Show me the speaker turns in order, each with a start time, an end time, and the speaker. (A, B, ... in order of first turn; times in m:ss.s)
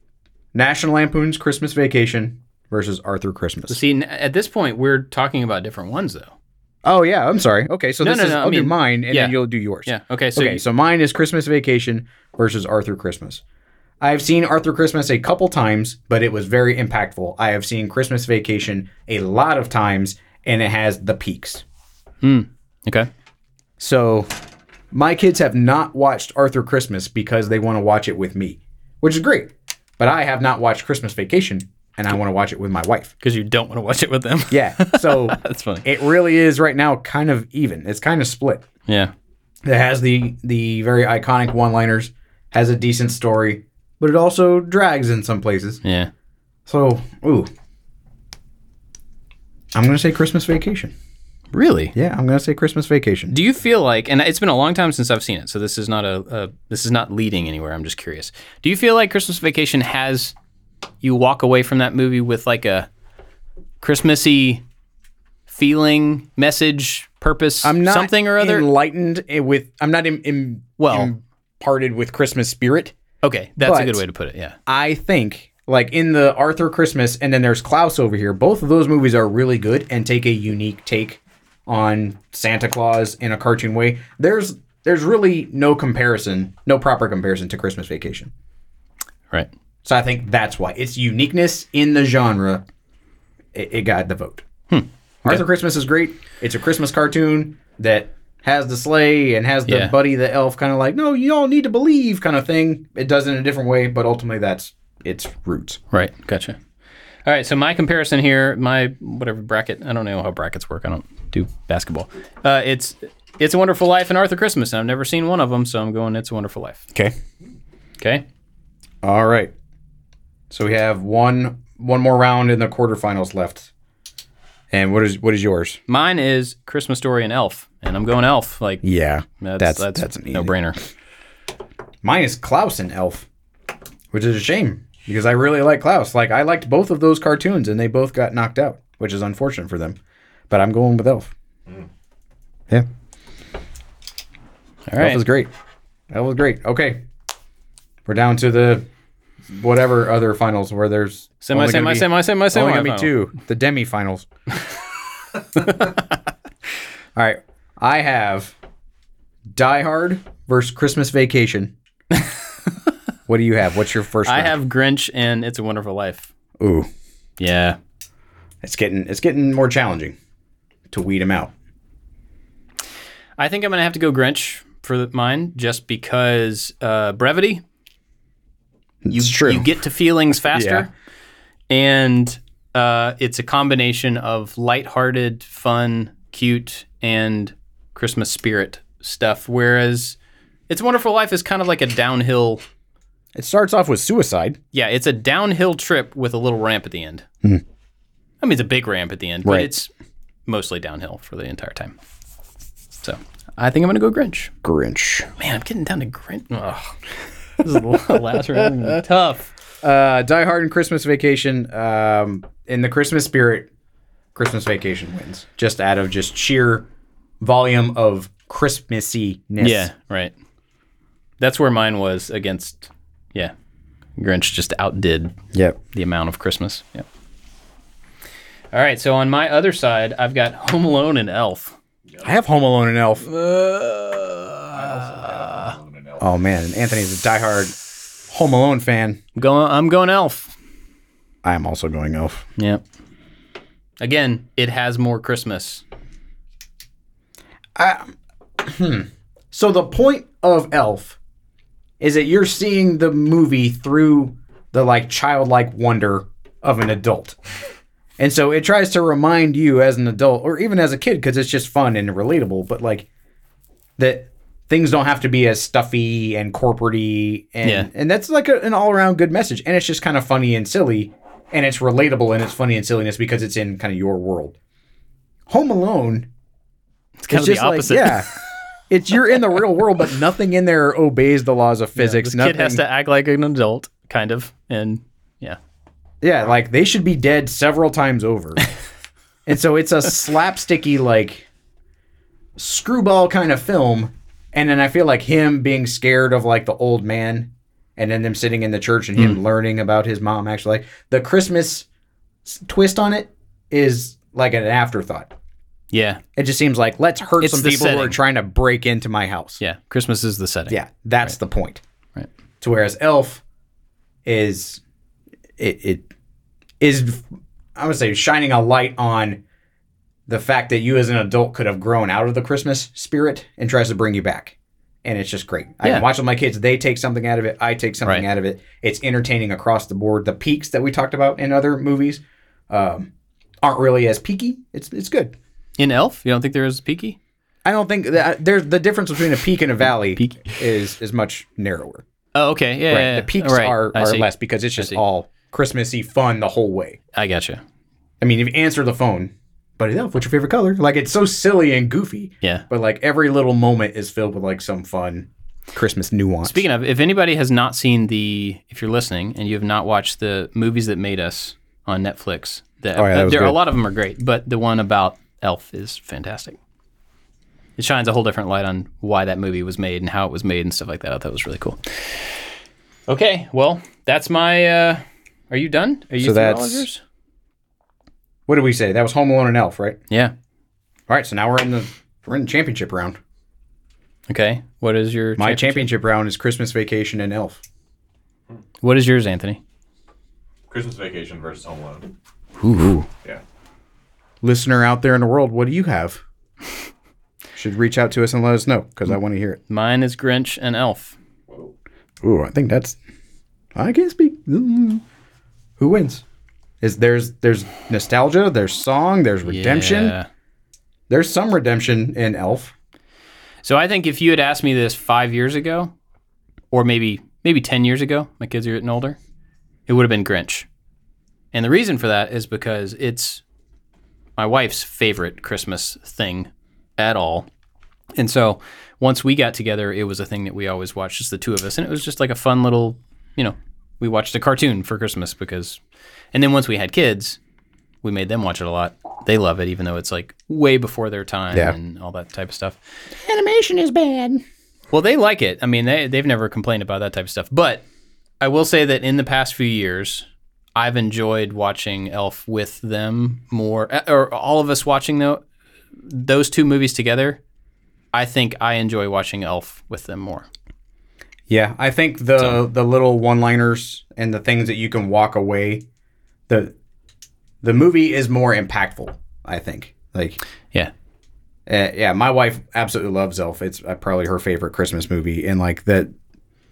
0:00.5-0:03.8 A
0:03.7-0:06.3 B
0:06.8-0:13.4 A
0:08.0-0:10.6 B
0:14.0-0:21.6 A
0:22.2-0:23.1 B
0:23.8-0:24.3 A
0:24.9-0:33.1 A
0:33.2-0:35.8 B
0:34.5-0:38.6 A
0:38.9-0:39.1 B
0:39.6-0:45.8 A
0:45.8-0:46.1 B
0:46.6-0:47.5 A
0:49.7-0:50.9 A
0:51.5-0:51.9 B
0:51.9-0:53.3 A
0:53.3-1:00.3 B
1:01.0-1:02.9 B
1:03.8-1:04.6 B
1:05.5-1:08.7 B
1:07.6-1:13.0 A
1:10.8-1:11.1 B
1:13.2-1:14.6 B
1:13.6-1:14.0 A
1:14.7-1:28.3 A
1:29.8-1:32.6 A
1:33.5-1:34.4 A
1:34.7-1:35.4 B
1:35.2-1:45.8 A
1:39.7-1:39.9 B
1:45.9-1:46.6 B
1:47.2-1:56.8 B
1:58.0-1:58.2 B
1:59.0-1:59.5 A
2:00.5-2:03.7 A
2:04.7-2:05.8 A
2:05.9-2:08.8 B
2:08.8-2:10.5 A
2:09.4-2:10.8 B
2:12.0-2:13.3 A
2:14.1-2:20.0 A
2:20.5-2:21.3 A
2:24.9-2:25.2 B
2:25.0-2:25.5 A
2:26.1-2:27.0 A
2:28.0-2:28.9 A
2:29.5-2:34.3 A
2:31.4-2:33.1 B
2:35.6-2:35.9 B
2:37.2-2:38.6 A
2:39.5-2:41.7 A
2:43.3-2:44.6 A
2:44.2-2:46.3 B
2:46.6-2:46.9 A
2:47.4-2:47.8 B
2:48.6-2:50.2 A
2:50.9-2:51.5 A
2:53.4-2:57.6 B
2:59.0-2:59.7 A
2:59.1-3:00.9 B
3:00.5-3:00.9 A
3:01.7-3:10.2 B
3:10.7-3:12.6 B
3:13.3-3:14.6 A
3:14.7-3:17.2 B
3:18.4-3:19.9 B
3:19.4-3:19.7 A
3:20.5-3:22.0 B
3:23.0-3:24.5 B
3:24.6-3:25.3 A
3:25.4-3:27.0 B
3:27.6-3:29.5 B
3:29.8-3:33.7 A
3:34.3-3:36.9 A
3:37.4-3:39.9 A
3:39.6-3:40.3 B
3:41.4-3:43.5 B
3:44.2-3:45.4 B
3:45.5-3:45.8 A
3:45.9-3:47.0 B
3:48.7-3:51.8 B
3:52.2-3:53.3 A
3:53.3-3:55.8 B
3:54.7-3:56.2 C
3:56.2-3:57.7 A
3:58.3-3:59.2 A
3:59.3-4:00.5 B
4:01.4-4:02.4 A
4:02.6-4:02.8 B
4:04.0-4:05.8 B
4:07.8-4:11.2 A
4:12.0-4:17.4 A
4:18.2-4:23.1 A
4:24.0-4:34.6 A
4:27.6-4:27.9 B
4:35.5-4:36.3 A
4:37.2-4:38.3 B
4:37.3-4:38.3 A
4:38.9-4:42.8 A
4:42.0-4:45.6 B
4:46.2-4:48.6 A
4:49.4-4:51.5 A
4:52.6-5:01.8 A
5:02.4-5:05.3 A
5:05.9-5:06.2 B
5:06.4-5:09.6 A
5:07.4-5:08.2 B
5:09.6-5:11.3 B
5:10.7-5:11.8 A
5:12.6-5:13.4 A
5:14.2-5:14.8 A
5:15.6-5:16.1 A
5:16.8-5:17.2 A
5:17.8-5:19.4 A
5:20.3-5:33.1 A
5:33.6-5:35.4 A
5:35.8-5:37.2 B
5:37.6-5:42.0 A
5:40.2-5:40.5 B
5:42.3-5:45.0 B
5:42.9-5:47.0 A
5:47.1-5:47.6 B
5:48.2-5:56.6 A
5:56.4-6:06.6 B
6:03.0-6:03.6 A
6:07.8-6:12.3 B
6:13.1-6:17.0 B
6:16.2-6:16.8 A
6:18.5-6:20.0 A
6:21.1-6:23.2 A
6:24.3-6:25.9 B
6:25.4-6:27.6 A
6:28.8-6:29.6 B
6:30.7-6:32.1 C
6:32.6-6:33.1 A
6:34.4-6:36.2 A
6:37.6-6:39.6 A
6:39.7-6:41.2 B
6:42.2-6:43.0 A
6:43.7-6:45.0 A
6:45.8-6:46.2 A
6:46.8-6:50.1 A
6:49.4-6:50.3 B
6:51.1-6:52.7 A
6:53.6-6:55.9 B
6:56.7-6:59.2 B
6:59.9-7:00.7 B
7:01.5-7:03.4 B
7:04.4-7:07.5 B
7:08.2-7:15.8 B
7:16.3-7:17.4 B
7:18.0-7:22.8 B
7:23.1-7:24.4 A
7:24.9-7:27.8 B
7:28.4-7:35.4 B
7:36.0-7:37.4 B
7:38.1-7:40.5 B
7:41.5-7:45.8 A
7:46.5-7:46.7 A
7:47.6-7:50.4 A
7:51.6-7:56.1 A